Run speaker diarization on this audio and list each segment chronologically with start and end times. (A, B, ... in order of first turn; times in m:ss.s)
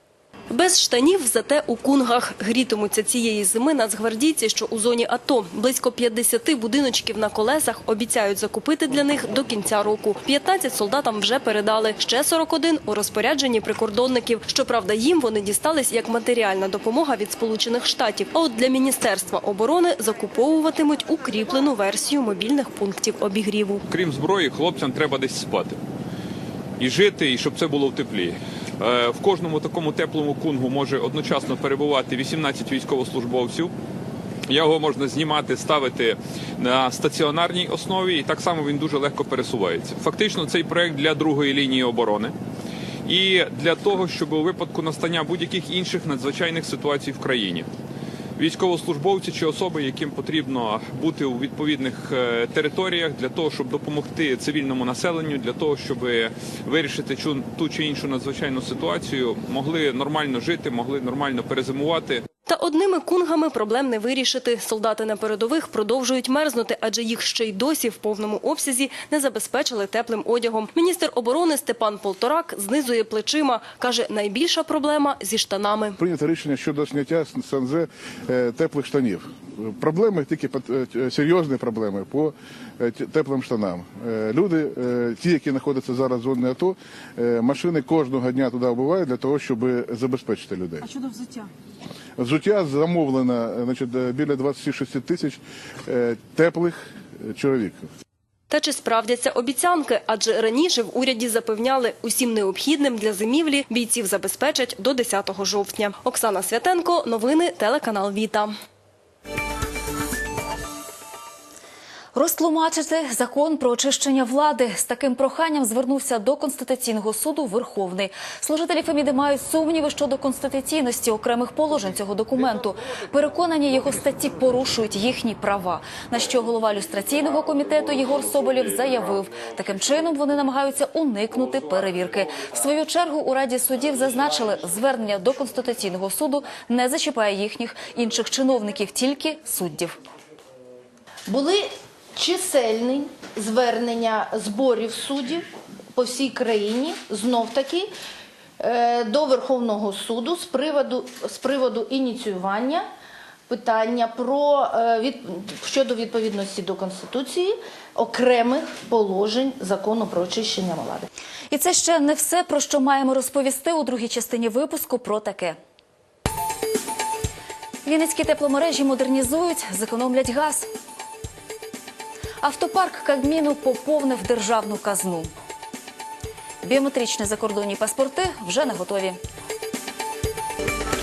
0:00.5-0:23.8 A
0:23.9-0:25.8 B
0:26.8-0:33.7 B
0:34.5-0:42.3 B
0:43.0-0:47.7 B
0:48.4-1:02.2 B
1:02.5-1:15.9 A
1:16.0-1:30.9 C
1:32.2-1:37.9 C
1:38.5-1:48.5 A
1:52.1-2:20.0 D
2:21.3-2:27.9 E
2:28.6-2:32.9 E
2:33.5-2:41.1 E
2:41.5-2:45.6 D
2:47.8-2:50.7 D
2:52.4-2:55.3 D
2:56.6-2:59.2 D